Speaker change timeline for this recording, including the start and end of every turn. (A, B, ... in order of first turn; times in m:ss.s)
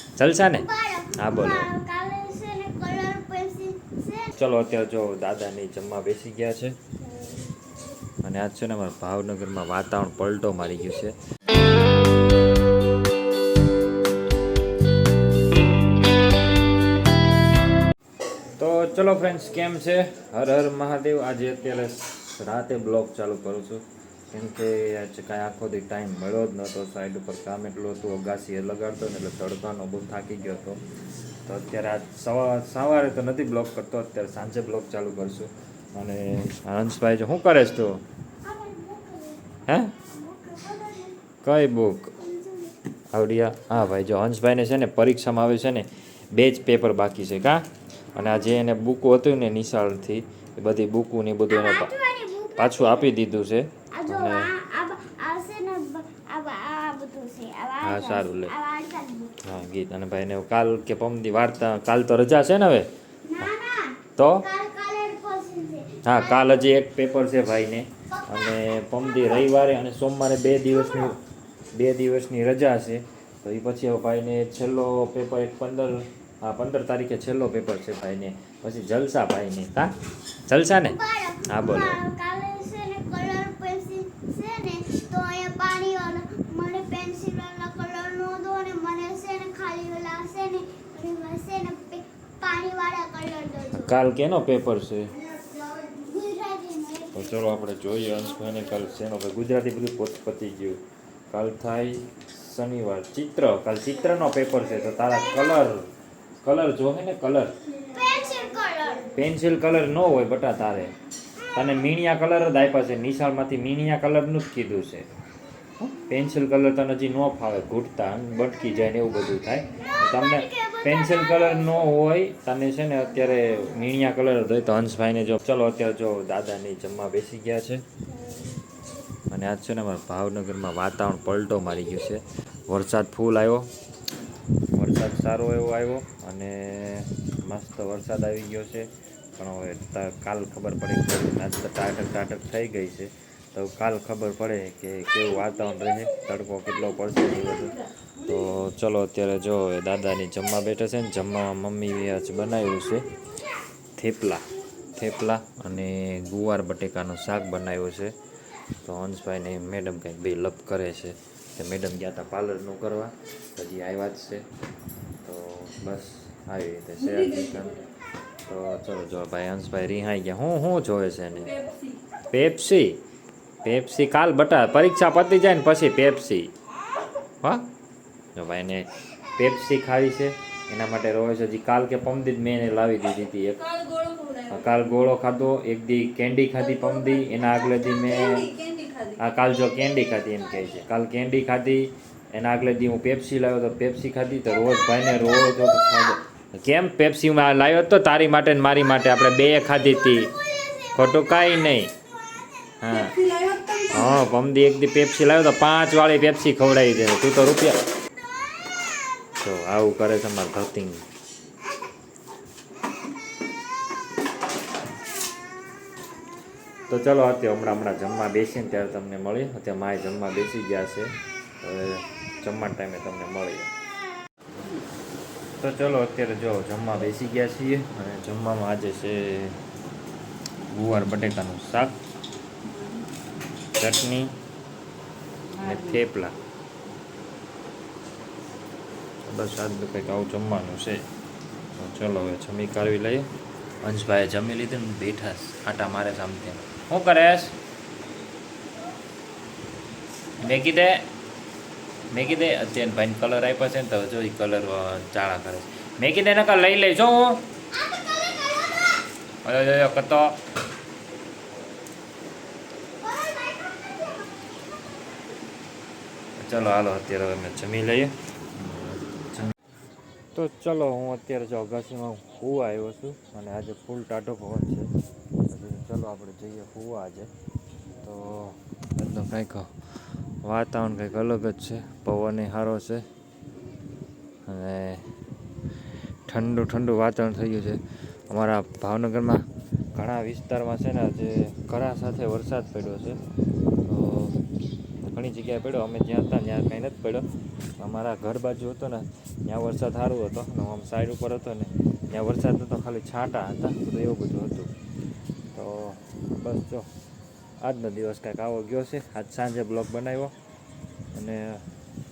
0:00.2-0:01.7 A
0:00.5-0:04.4 B
0:04.4-0:06.8 A
0:07.0-0:07.7 B
0:08.2-0:11.1 A
0:18.6-0:30.8 A
0:31.4-0:38.0 A
0:38.4-0:41.2 B
0:39.7-0:40.0 A
0:41.4-0:42.2 A
0:42.2-0:42.8 B
0:43.1-0:51.9 A
0:51.5-0:53.1 B
0:52.6-0:54.5 A
0:53.9-0:59.4 B
0:57.8-0:58.5 A
0:59.4-1:02.9 A
1:03.3-1:06.6 B
1:04.2-1:04.5 A
1:06.0-1:11.2 A
1:11.7-1:19.9 A
1:20.5-1:22.0 A
1:20.8-1:33.9 B
1:33.7-1:35.2 A
1:35.6-1:37.4 B
1:37.1-1:45.9 A
1:46.4-1:47.6 A
1:47.9-1:49.1 B
1:49.1-1:50.9 A
1:51.6-1:55.1 A
1:55.8-2:07.9 A
1:59.9-2:01.8 B
2:09.3-2:13.7 A
2:14.7-2:33.1 A
2:34.0-2:38.2 A
2:38.8-2:44.5 A
2:45.2-2:47.9 A
2:48.5-2:51.7 A
2:52.3-2:53.0 A
2:53.6-2:56.5 A
2:57.4-2:57.7 A
2:58.3-3:03.9 A
3:03.9-3:04.5 C
3:04.4-3:08.5 A
3:08.3-3:09.2 C
3:09.2-3:20.4 A
3:21.0-3:21.9 A
3:22.8-3:27.8 A
3:23.3-3:23.8 C
3:29.4-3:31.0 A
3:36.9-3:43.7 A
3:45.6-3:49.6 A
3:50.7-3:52.0 A
3:53.8-3:54.4 A
3:55.5-3:56.4 A
3:59.2-4:01.1 A
4:01.8-4:03.3 A
4:03.8-4:07.6 A
4:10.4-4:11.1 A
4:12.1-4:17.5 A
4:17.9-4:18.5 B
4:19.4-4:20.4 A
4:23.0-4:24.2 B
4:26.4-4:29.5 A
4:30.3-4:34.9 A
4:35.4-4:37.3 A
4:38.0-4:39.7 A
4:40.4-4:43.1 A
4:44.4-4:45.1 A
4:46.3-4:53.2 A
4:53.8-4:54.4 A
4:55.1-4:57.2 A
4:57.8-5:04.7 A
5:05.5-5:06.9 A
5:07.6-5:10.3 A
5:11.1-5:11.6 A